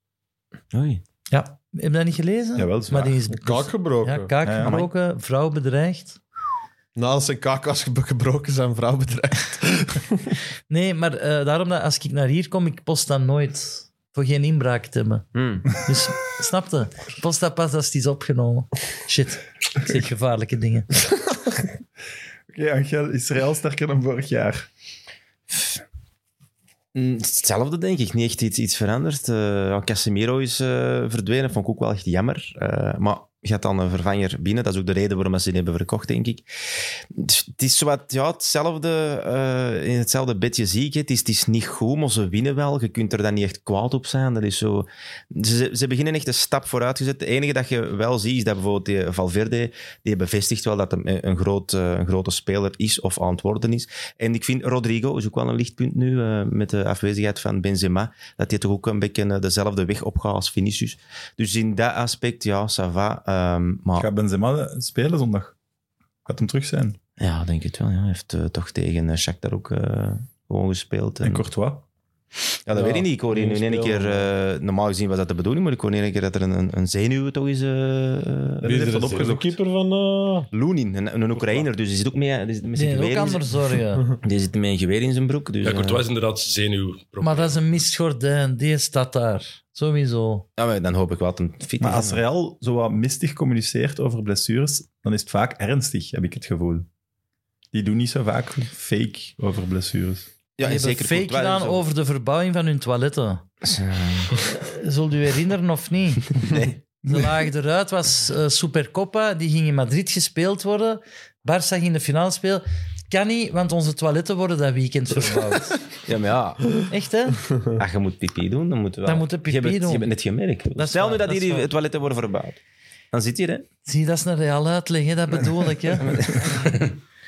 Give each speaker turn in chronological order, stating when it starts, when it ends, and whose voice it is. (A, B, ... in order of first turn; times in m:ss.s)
0:00.7-0:01.0 A
0:01.3-0:06.2 B
0:02.6-0:03.2 C
0:03.3-0:04.3 D
0:04.4-0:04.8 C
0:04.6-0:04.9 A
0:07.0-0:10.3 D
0:10.7-0:21.0 B
0:15.3-0:15.7 A
0:22.5-0:24.7 C
0:26.9-1:04.1 A
1:04.0-1:05.5 C
1:06.2-1:07.0 C
1:07.2-1:11.4 A
1:11.2-1:11.8 C
1:12.7-1:19.0 A
1:12.7-1:14.3 D
1:18.6-1:20.5 D
1:18.6-1:19.6 C
1:20.5-1:23.4 A
1:22.7-1:24.1 B
1:24.2-1:26.0 A
1:25.6-1:27.6 E
1:27.2-1:30.4 B
1:30.6-1:32.2 A
1:31.8-1:36.9 C
1:37.7-1:40.3 C
1:40.6-1:41.8 A
1:40.6-1:43.4 B
1:43.6-1:44.4 A
1:44.4-1:55.8 B
1:46.3-1:46.8 A
1:56.0-1:56.8 A
1:56.9-1:57.5 B
1:57.8-2:02.6 A
1:59.0-2:00.1 B
2:00.8-2:01.7 B
2:03.1-2:03.7 A
2:03.8-2:06.5 B
2:06.0-2:07.0 A